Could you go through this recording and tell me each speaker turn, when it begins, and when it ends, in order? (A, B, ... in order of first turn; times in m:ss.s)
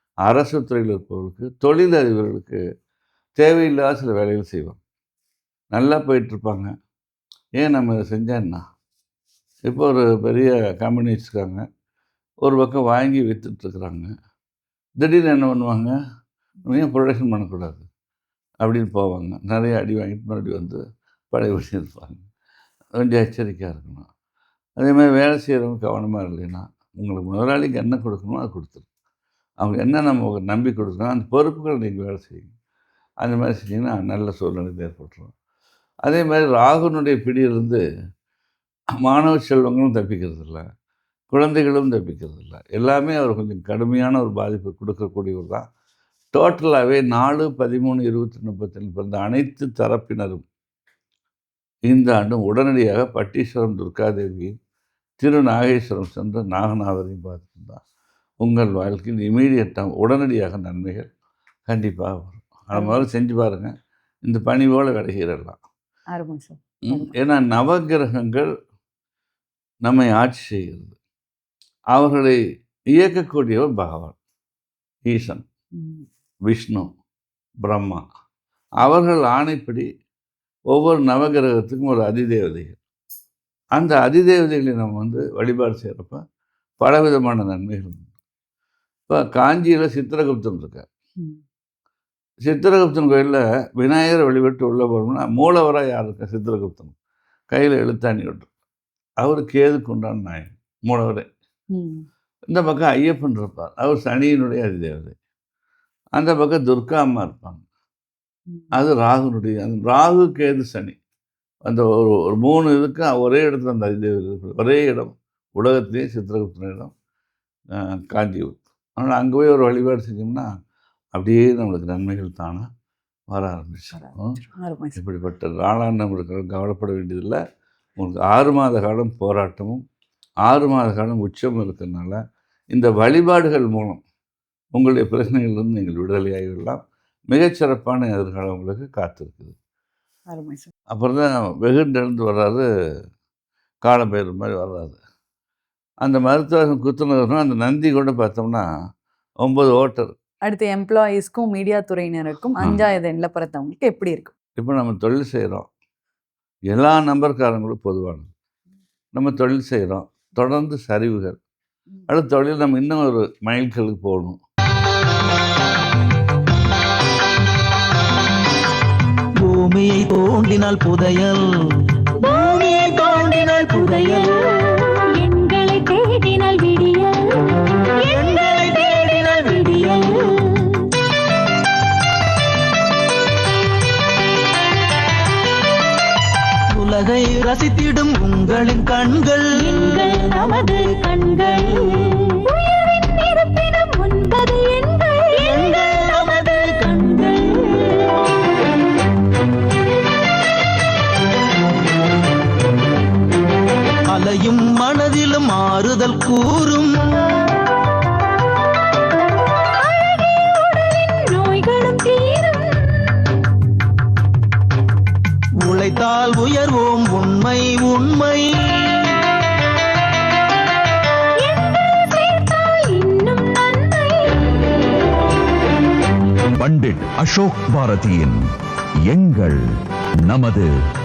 0:00.2-0:02.6 A
0:03.4-0:04.8 A
0:05.7-0:06.7 A
0:07.6-0:08.6 A
0:09.7-0:11.6 A
0:12.4-0:14.1 A
0:15.0-0:15.9 A
0:16.6-0:17.9 A
0:18.6-0:22.2 A
0:22.9-0:24.1 A
0:24.8-0:28.8 A
0:29.6-0:32.5 A
0:33.2-0:35.3 A
0:36.0-0:37.8 A
0:39.0-0:40.6 A
0:41.3-0:45.6 A
0:46.3-0:50.4 A
0:51.9-0:54.5 A
0:55.2-0:57.8 A
0:58.4-1:01.1 A
1:01.7-1:03.7 A
1:02.7-1:03.0 B
1:04.2-1:05.6 A
1:06.1-1:07.1 B
1:06.9-1:08.5 A
1:09.8-1:11.0 A
1:11.9-1:12.4 A
1:12.9-1:14.2 A
1:15.1-1:15.4 A
1:15.8-1:16.0 B
1:16.5-1:16.9 A
1:17.6-1:18.0 A
1:18.8-1:19.9 A
1:20.7-1:22.8 A
1:23.8-1:26.2 A
1:26.8-1:28.1 A
1:29.1-1:30.8 A
1:32.4-1:36.9 A
1:37.5-1:38.5 A
1:39.2-1:41.3 A
1:41.7-1:42.0 B
1:42.5-1:45.1 A
1:46.2-1:47.6 A
1:48.7-1:51.0 A
1:51.6-1:56.9 A
1:57.8-2:00.5 A
2:01.1-2:02.7 A
2:03.3-2:04.3 A
2:04.0-2:05.0 B
2:05.0-2:07.4 A
2:08.0-2:09.8 A
2:10.5-2:12.2 A
2:12.7-2:14.0 A
2:14.7-2:19.6 A
2:20.3-2:20.7 B
2:20.9-2:22.6 A
2:23.8-2:25.0 A
2:26.0-2:28.6 A
2:29.4-2:30.2 A
2:30.4-2:34.3 B
2:34.6-2:35.7 A
2:36.7-2:38.3 A
2:39.1-2:41.4 A
2:42.1-2:44.4 A
2:49.4-2:54.7 C
2:52.2-2:52.6 D
2:54.0-2:58.0 D
2:58.0-3:00.1 C
2:59.4-3:00.9 D
3:06.7-3:09.9 C
3:09.6-3:15.8 D
3:15.4-3:16.9 C
3:16.8-3:18.0 D
3:24.1-3:27.4 C
3:30.0-3:33.2 D
3:35.6-3:39.0 C
3:41.4-3:44.6 D
3:46.6-3:48.4 E
3:49.1-3:49.6 E
3:50.3-3:50.7 E